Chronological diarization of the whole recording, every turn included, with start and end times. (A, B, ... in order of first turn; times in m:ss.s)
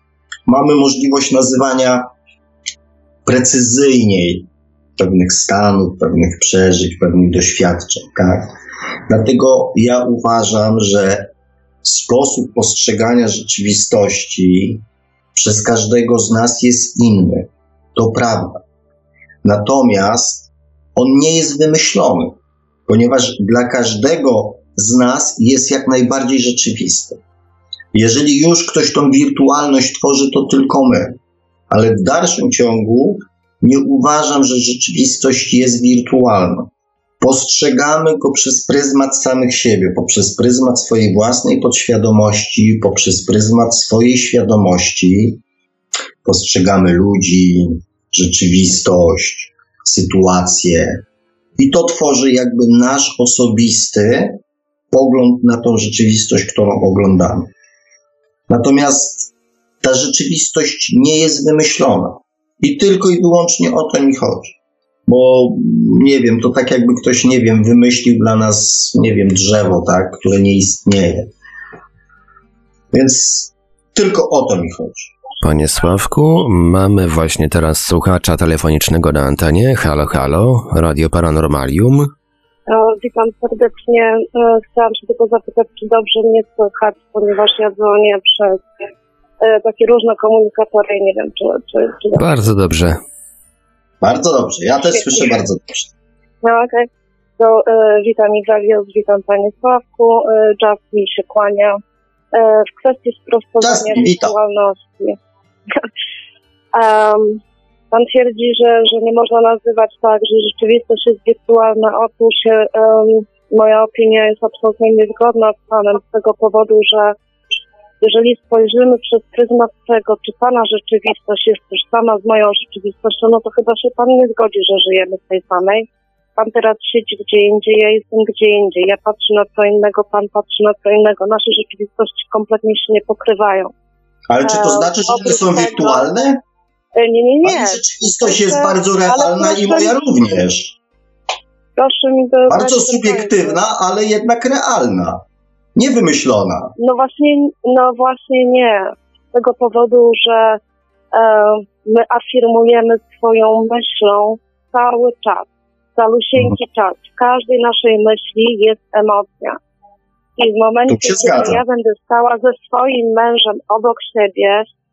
0:00.5-0:02.1 A
0:03.2-0:08.5 A
0:09.1-0:11.3 A
0:11.8-0:14.8 A
0:15.3-0:18.6 A
0:19.4-0:27.2 A
0:27.9-0:31.2 A
0:31.7-0:45.4 A
0:46.2-0:51.0 A
0:51.6-0:54.4 A
0:54.9-0:57.5 A
0:58.5-0:59.3 A
0:59.8-1:04.6 A
1:05.1-1:11.3 A
1:12.9-1:15.1 A
1:15.4-1:22.1 B
1:22.7-1:28.6 C
1:29.4-1:32.2 C
1:32.1-1:33.0 B
1:34.0-1:35.9 A
1:34.9-1:35.2 C
1:36.4-1:36.9 C
1:37.4-1:41.8 C
1:42.3-1:45.2 C
1:43.6-1:44.3 A
1:46.7-1:47.4 C
1:47.9-1:57.1 C
1:58.0-2:13.7 C
2:14.3-2:16.4 A
2:14.4-2:16.1 C
2:17.0-2:20.0 C
2:17.4-2:20.8 A
2:21.8-2:23.6 C
2:22.5-2:25.2 A
2:25.8-2:26.7 A
2:26.8-2:30.6 C
2:31.1-2:39.6 C
2:40.4-2:44.7 C
2:40.9-2:41.6 A